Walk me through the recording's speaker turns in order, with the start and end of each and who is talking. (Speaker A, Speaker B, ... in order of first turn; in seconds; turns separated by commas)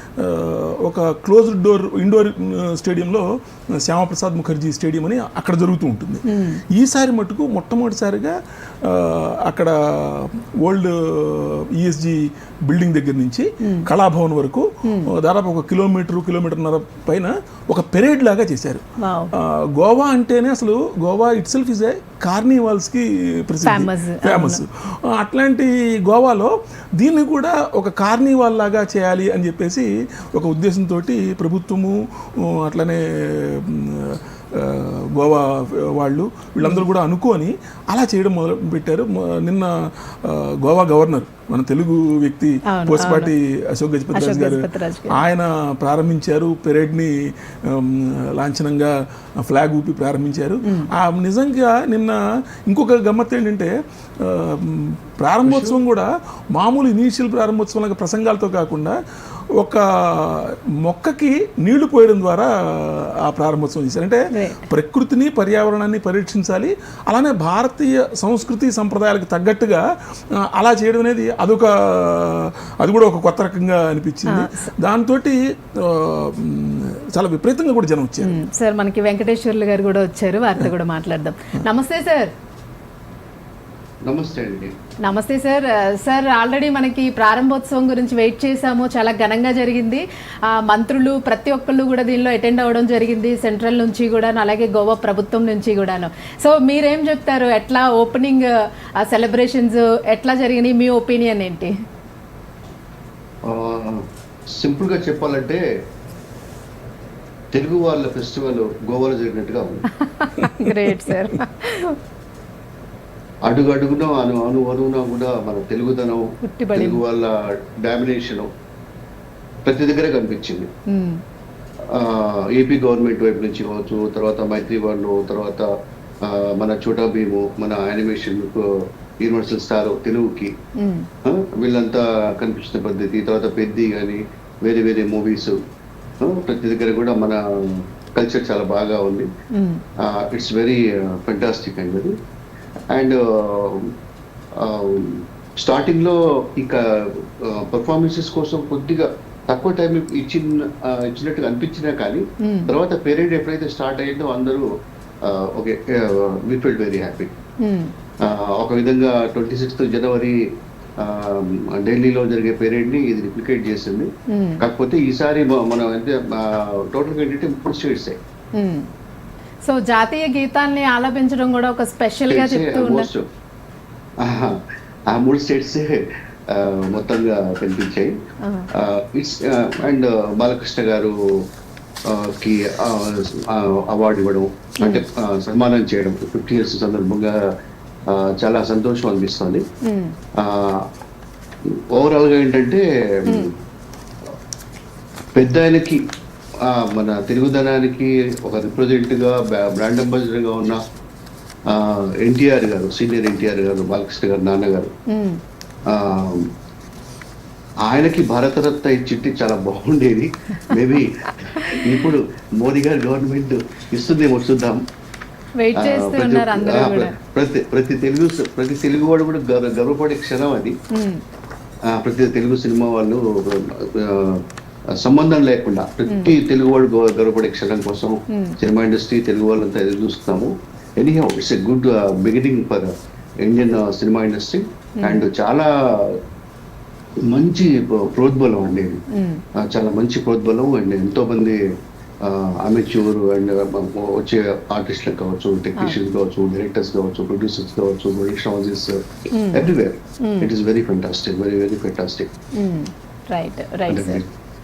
Speaker A: 0.2-59.0, Speaker B: 6.2-6.6, Speaker B: 13.6-13.9, Speaker B: 14.8-15.1, Speaker B: 19.0-19.3, Speaker B: 23.6-24.6, Speaker B: 42.7-43.3, Speaker B: 44.1-45.2, Speaker B: 50.6-50.9, Speaker C: 55.5-55.8, Speaker A: 59.6-78.4, Speaker B: 64.3-64.7, Speaker B: 74.3-74.7, Speaker B: 78.2-82.3, Speaker C: 84.0-84.7, Speaker B: 85.0-101.8, Speaker C: 103.4-105.7, Speaker C: 107.5-109.9, Speaker B: 110.0-112.0, Speaker A: 110.4-111.3, Speaker C: 113.5-118.5, Speaker B: 116.4-117.0, Speaker C: 119.6-120.7, Speaker B: 120.9-121.2, Speaker C: 121.9-130.6, Speaker B: 130.8-131.1, Speaker C: 131.2-135.6, Speaker C: 136.2-139.3, Speaker B: 139.5-139.8, Speaker C: 140.0-142.2, Speaker C: 142.9-143.9, Speaker C: 144.6-154.7, Speaker B: 152.4-152.7, Speaker C: 155.2-157.3, Speaker B: 157.6-157.9, Speaker C: 158.2-168.2, Speaker B: 164.3-164.6, Speaker B: 168.6-168.9, Speaker B: 169.6-173.1, Speaker C: 172.3-173.3, Speaker C: 174.2-178.2, Speaker B: 178.4-178.7, Speaker C: 178.7-181.5, Speaker C: 182.1-187.5, Speaker C: 188.1-189.7, Speaker B: 189.8-190.2, Speaker C: 190.4-190.9, Speaker C: 191.7-193.5, Speaker C: 195.3-196.1, Speaker C: 196.6-200.9, Speaker C: 201.7-204.9, Speaker B: 205.1-205.4, Speaker C: 205.9-206.5, Speaker C: 207.8-214.8, Speaker B: 211.6-212.0, Speaker B: 215.6-217.1, Speaker C: 215.8-220.8, Speaker B: 220.9-221.2, Speaker C: 221.9-224.4, Speaker C: 225.0-232.9, Speaker B: 226.1-226.3, Speaker B: 228.3-228.6, Speaker C: 233.4-236.2, Speaker B: 235.0-235.3, Speaker C: 237.3-239.1, Speaker B: 239.1-239.4, Speaker C: 239.6-241.7, Speaker C: 242.2-249.0, Speaker B: 249.3-250.5, Speaker C: 249.5-252.3, Speaker B: 252.6-254.2, Speaker C: 253.9-254.3